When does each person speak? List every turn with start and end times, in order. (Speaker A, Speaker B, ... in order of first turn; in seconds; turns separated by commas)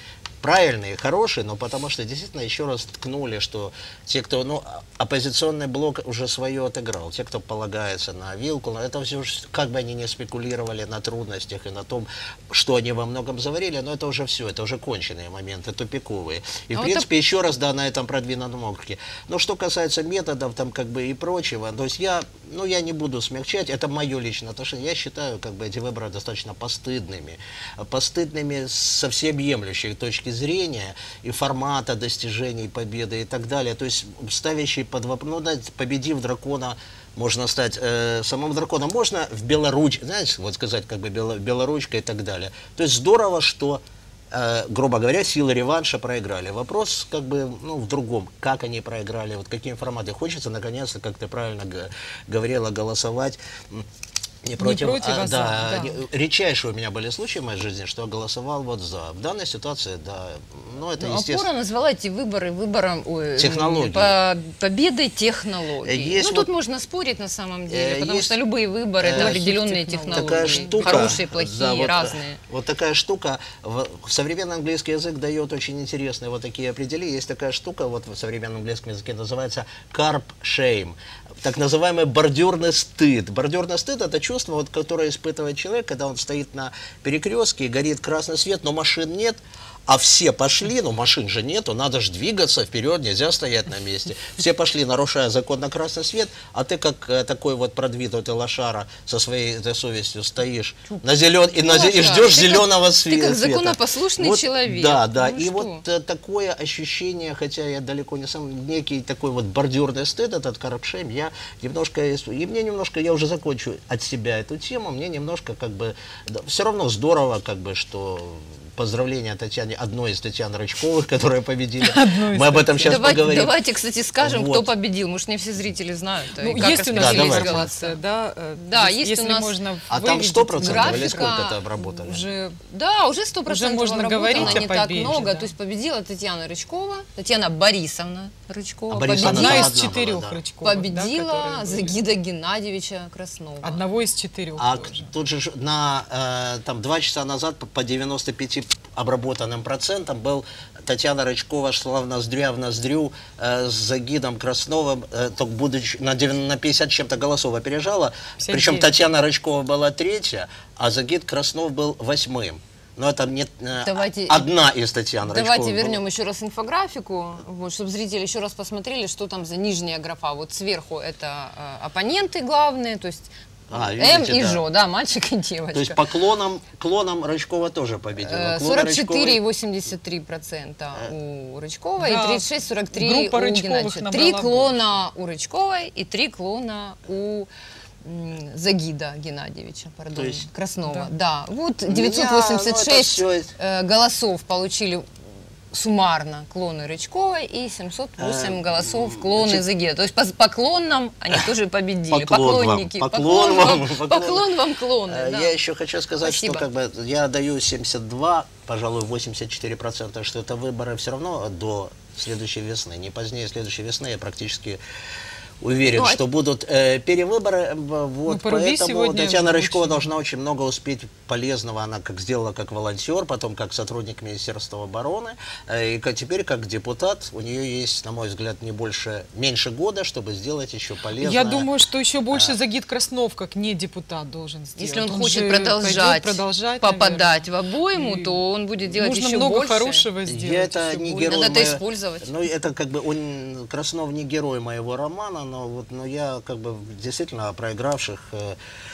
Speaker A: 0.4-53.9, Speaker B: 16.7-17.1, Speaker A: 54.4-61.5, Speaker C: 54.6-56.0, Speaker B: 61.0-72.4, Speaker A: 63.4-64.2, Speaker A: 65.8-66.5, Speaker A: 67.7-68.4, Speaker A: 69.0-69.5, Speaker C: 69.1-71.2, Speaker A: 70.1-123.6, Speaker B: 101.6-105.8, Speaker C: 121.8-123.5, Speaker B: 122.8-128.0, Speaker A: 124.2-124.7, Speaker C: 126.4-132.6, Speaker A: 126.5-127.7, Speaker B: 128.6-129.6, Speaker A: 129.9-132.3, Speaker B: 130.2-131.6, Speaker B: 132.7-139.8, Speaker C: 133.5-135.5, Speaker A: 134.3-134.7, Speaker A: 138.9-140.4, Speaker C: 139.2-142.0, Speaker B: 140.6-143.8, Speaker C: 143.6-145.1, Speaker A: 144.6-166.0, Speaker C: 158.4-158.9, Speaker B: 163.8-164.5, Speaker B: 165.3-176.1, Speaker A: 173.7-174.6, Speaker A: 175.7-179.4, Speaker B: 178.2-187.5, Speaker C: 182.0-184.8, Speaker B: 188.0-195.1, Speaker A: 190.2-190.5, Speaker C: 190.9-191.1, Speaker A: 191.9-193.5, Speaker B: 195.7-205.6, Speaker A: 198.2-199.7, Speaker A: 202.1-204.5, Speaker A: 205.1-214.8, Speaker B: 206.2-206.7, Speaker A: 215.6-231.7, Speaker B: 215.9-216.2, Speaker C: 218.3-220.1, Speaker C: 231.2-241.6, Speaker B: 234.8-240.1, Speaker A: 240.3-248.6, Speaker B: 241.2-242.3